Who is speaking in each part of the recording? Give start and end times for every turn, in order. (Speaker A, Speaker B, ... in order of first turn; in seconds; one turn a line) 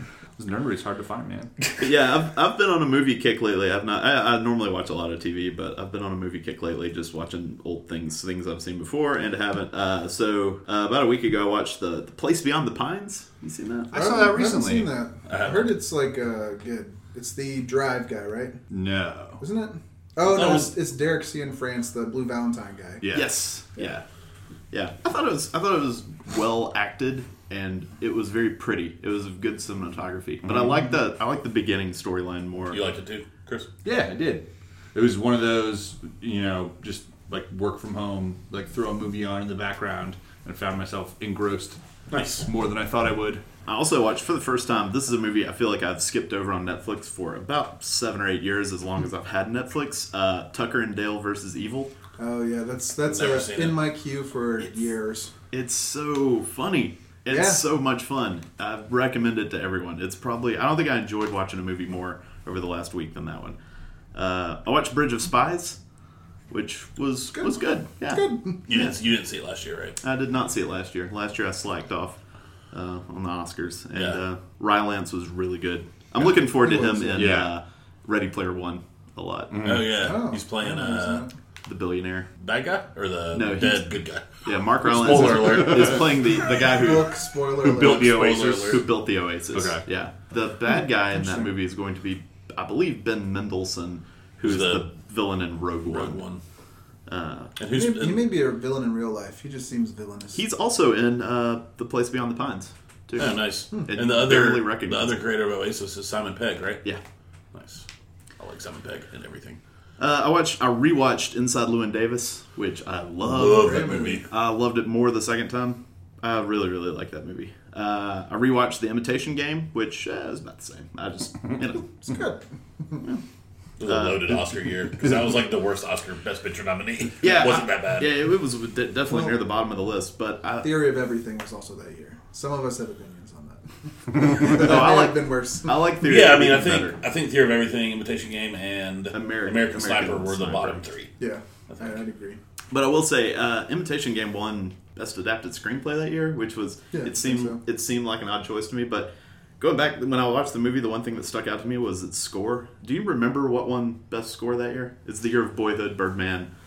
Speaker A: 0.4-1.5
Speaker B: 1.8-13.9
Speaker A: 13.9-14.9
Speaker C: 13.9-18.6
Speaker D: 15.3-15.7
Speaker A: 18.7-19.4
Speaker C: 19.4-23.1
Speaker D: 20.2-20.7
Speaker B: 23.1-24.0
Speaker B: 24.7-32.8
Speaker D: 32.7-33.7
Speaker A: 33.8-41.8
Speaker D: 42.1-42.5
Speaker A: 42.4-43.4
Speaker B: 43.6-51.9
Speaker C: 52.2-55.3
Speaker D: 53.0-53.8
Speaker B: 55.5-63.6
Speaker C: 57.3-57.6
Speaker B: 64.1-65.8
Speaker B: 66.5-68.9
Speaker C: 67.3-68.6
Speaker D: 68.7-70.0
Speaker B: 70.0-72.2
Speaker B: 72.7-79.7
Speaker C: 76.5-77.3
Speaker A: 77.1-77.5
Speaker A: 79.5-80.0
Speaker D: 79.6-81.2
Speaker C: 79.9-81.3
Speaker B: 81.6-82.3
Speaker D: 82.4-86.2
Speaker B: 83.3-87.1
Speaker C: 86.7-88.2
Speaker A: 87.6-88.8
Speaker D: 87.6-88.8
Speaker B: 88.7-96.2
Speaker A: 89.5-89.8
Speaker C: 91.2-91.5
Speaker D: 94.4-94.9
Speaker D: 95.9-96.4
Speaker B: 97.1-97.5
Speaker D: 97.6-98.3
Speaker C: 97.7-100.4
Speaker B: 100.3-105.2
Speaker D: 103.2-106.8
Speaker D: 107.5-107.8
Speaker D: 108.4-109.6
Speaker B: 110.0-121.9
Speaker D: 113.2-114.2
Speaker C: 113.6-114.2
Speaker C: 122.0-123.0
Speaker D: 123.8-128.2
Speaker B: 123.8-124.4
Speaker B: 127.2-130.7
Speaker C: 129.1-129.4
Speaker C: 130.6-135.8
Speaker B: 134.3-137.0
Speaker D: 136.0-141.1
Speaker B: 139.1-140.8
Speaker C: 141.2-142.4
Speaker D: 141.7-141.9
Speaker B: 142.7-156.5
Speaker C: 146.9-147.6